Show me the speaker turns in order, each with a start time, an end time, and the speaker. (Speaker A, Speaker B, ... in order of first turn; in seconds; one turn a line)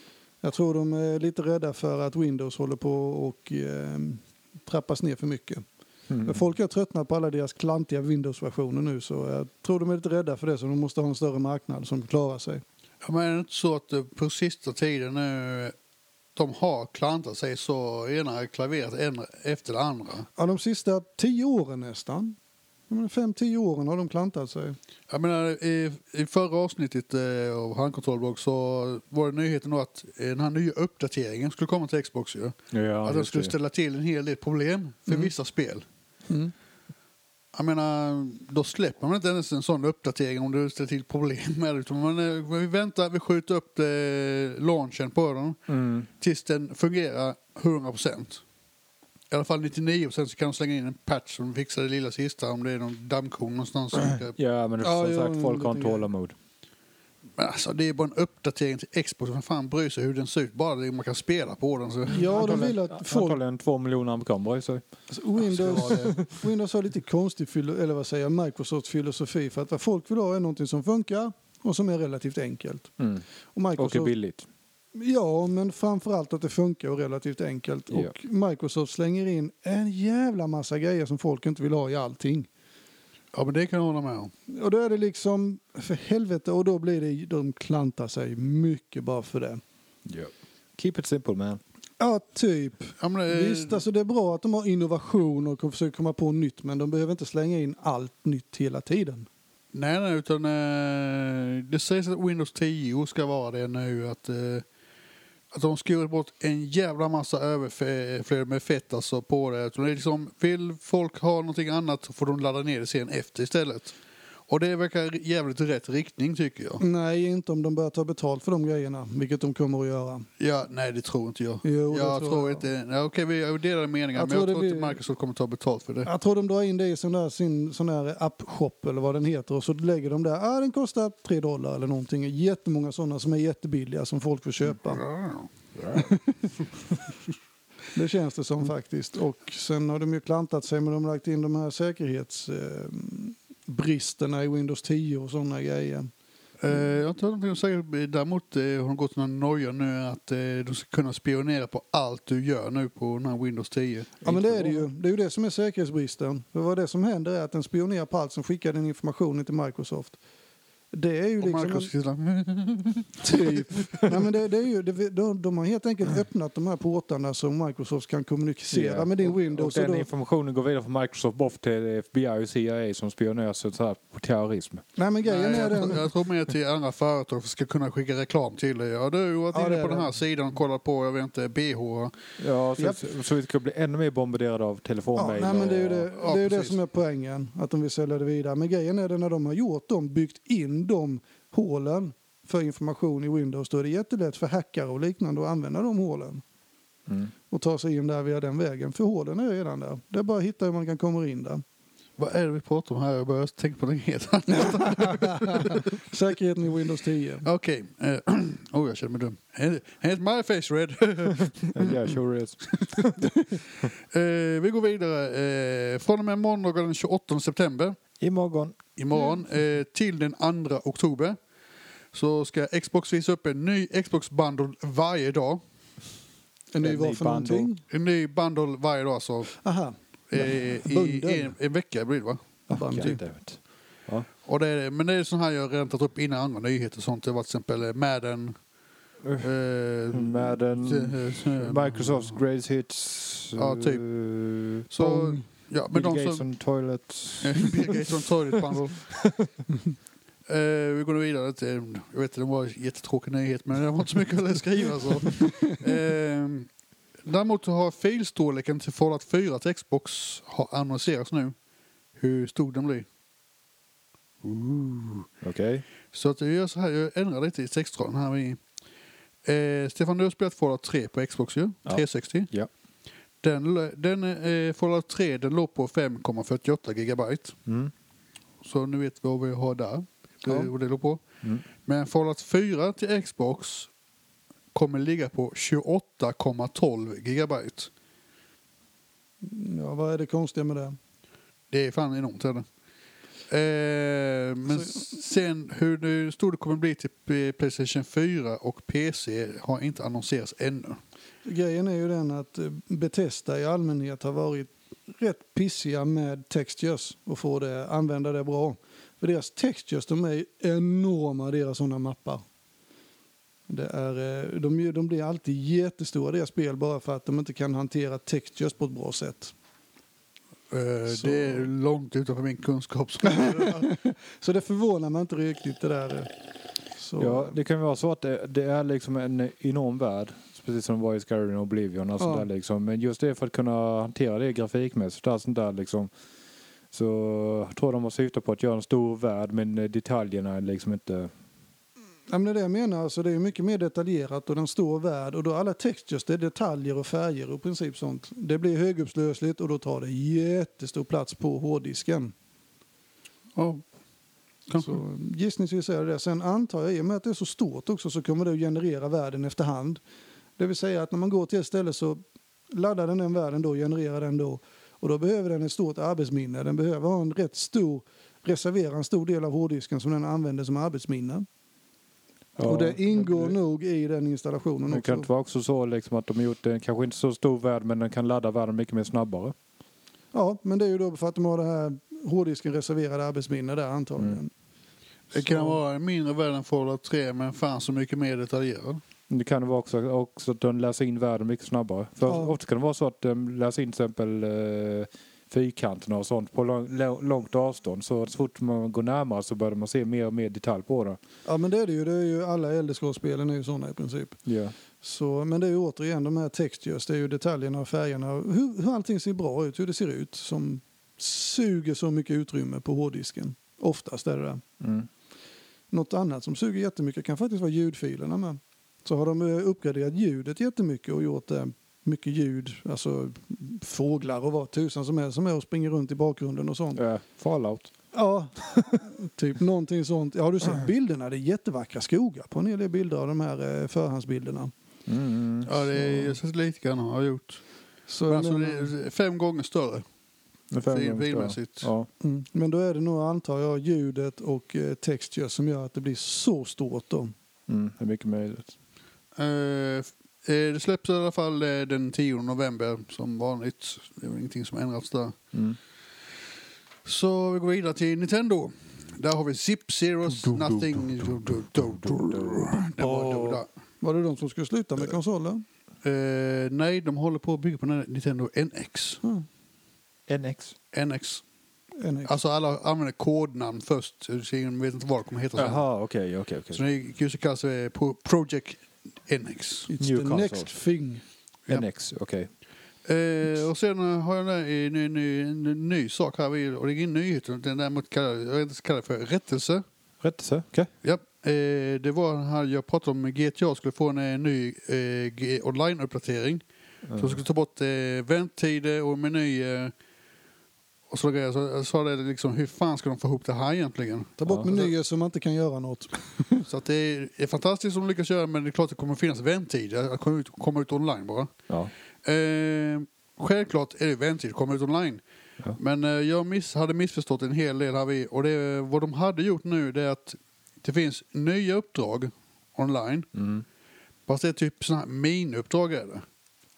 Speaker A: 0.4-5.6
Speaker B: 6.1-6.4
Speaker A: 6.2-12.6
Speaker C: 13.0-15.8
Speaker C: 16.4-20.3
Speaker A: 20.4-22.4
Speaker A: 22.9-24.8
Speaker C: 25.1-35.9
Speaker B: 32.7-33.5
Speaker C: 37.5-48.4
Speaker B: 45.7-46.1
Speaker C: 49.3-54.4
Speaker B: 54.1-56.4
Speaker A: 54.8-56.1
Speaker C: 57.4-62.6
Speaker A: 62.1-63.4
Speaker B: 62.1-64.8
Speaker A: 65.1-72.9
Speaker C: 65.4-66.2
Speaker B: 65.8-66.2
Speaker B: 73.0-73.2
Speaker A: 73.5-74.1
Speaker B: 73.8-74.5
Speaker A: 75.0-82.5
Speaker C: 83.3-84.3
Speaker A: 84.5-89.6
Speaker B: 90.1-91.6
Speaker A: 92.0-99.3
Speaker C: 93.0-93.8
Speaker C: 99.7-104.7
Speaker C: 105.5-114.0
Speaker C: 114.5-116.8
Speaker A: 116.8-120.3
Speaker C: 120.4-126.1
Speaker A: 121.6-122.7
Speaker A: 124.1-125.0
Speaker A: 126.0-135.0
Speaker C: 134.8-135.5
Speaker A: 135.9-136.4
Speaker A: 137.9-146.1
Speaker C: 146.6-154.3
Speaker A: 154.2-160.2
Speaker B: 154.3-154.6
Speaker A: 160.9-161.9
Speaker C: 161.4-163.7
Speaker A: 163.2-170.1
Speaker B: 168.7-174.8
Speaker A: 175.0-176.1
Speaker C: 175.3-182.2
Speaker A: 179.5-180.1
Speaker B: 182.4-186.1
Speaker A: 185.2-196.4
Speaker C: 186.1-186.8
Speaker A: 197.5-201.6
Speaker C: 202.2-205.9
Speaker A: 204.5-207.5
Speaker C: 207.4-212.2
Speaker B: 211.7-213.2
Speaker C: 213.8-218.0
Speaker B: 218.2-218.8
Speaker C: 219.0-221.4
Speaker C: 222.1-225.6
Speaker A: 226.7-227.8
Speaker B: 226.8-227.7
Speaker C: 227.9-229.6
Speaker A: 229.6-231.5
Speaker C: 230.3-232.4
Speaker A: 232.7-233.2
Speaker B: 232.7-234.3
Speaker C: 234.5-238.6
Speaker C: 239.4-242.4
Speaker B: 240.1-244.9
Speaker C: 243.6-244.1
Speaker C: 244.9-246.4
Speaker A: 245.0-245.4
Speaker B: 245.9-249.5
Speaker C: 247.4-249.2
Speaker C: 250.5-256.7
Speaker A: 255.5-255.8
Speaker C: 257.2-261.6
Speaker C: 262.2-263.1
Speaker C: 264.4-265.3
Speaker B: 265.4-265.9
Speaker C: 266.1-268.6
Speaker C: 269.4-272.5
Speaker B: 271.9-272.7
Speaker C: 273.4-277.6
Speaker B: 277.7-277.9
Speaker C: 278.6-281.2
Speaker C: 281.9-283.9
Speaker C: 284.7-287.9
Speaker A: 289.4-291.0
Speaker C: 291.7-292.7
Speaker C: 293.5-301.0
Speaker A: 294.7-295.0
Speaker A: 301.4-312.4
Speaker A: 313.7-319.5
Speaker C: 320.7-323.9
Speaker A: 321.1-321.7
Speaker A: 323.2-326.3
Speaker A: 327.0-327.6
Speaker B: 327.2-336.1
Speaker A: 332.2-332.5
Speaker B: 336.9-341.3
Speaker A: 342.3-352.3
Speaker C: 353.6-353.8
Speaker C: 354.7-355.0
Speaker A: 354.8-360.0
Speaker A: 360.6-371.5
Speaker B: 372.6-373.6
Speaker A: 372.6-375.3
Speaker B: 374.9-379.6
Speaker A: 380.3-384.5
Speaker A: 385.3-385.8
Speaker C: 385.3-389.0
Speaker B: 389.3-401.2
Speaker A: 392.3-392.6
Speaker A: 401.5-404.4
Speaker B: 404.5-404.7
Speaker A: 405.0-414.6
Speaker B: 414.8-415.1
Speaker A: 415.9-427.0
Speaker B: 427.0-427.9
Speaker A: 428.1-434.7
Speaker B: 435.1-435.7
Speaker C: 435.7-437.6
Speaker A: 435.9-436.4
Speaker A: 438.1-438.9
Speaker C: 438.3-440.0
Speaker B: 440.7-442.1
Speaker C: 440.9-441.9
Speaker A: 442.2-447.3
Speaker B: 447.7-448.8
Speaker C: 449.4-455.4
Speaker B: 455.5-455.8
Speaker C: 457.1-463.6
Speaker B: 460.4-462.8
Speaker A: 463.0-465.6
Speaker C: 466.0-469.2
Speaker B: 470.3-470.8
Speaker C: 470.9-471.4
Speaker A: 472.0-472.3
Speaker C: 472.3-475.8
Speaker B: 475.6-476.8
Speaker C: 476.7-479.9
Speaker A: 479.9-481.2
Speaker B: 480.0-480.7
Speaker B: 481.7-482.5
Speaker C: 483.1-489.8
Speaker B: 490.2-490.9
Speaker C: 491.0-496.6
Speaker B: 497.1-497.4
Speaker C: 497.2-499.9
Speaker C: 501.1-504.9
Speaker A: 504.4-506.6
Speaker C: 506.7-511.5
Speaker C: 512.2-515.2
Speaker C: 515.8-523.3
Speaker B: 523.4-523.6
Speaker C: 524.3-526.2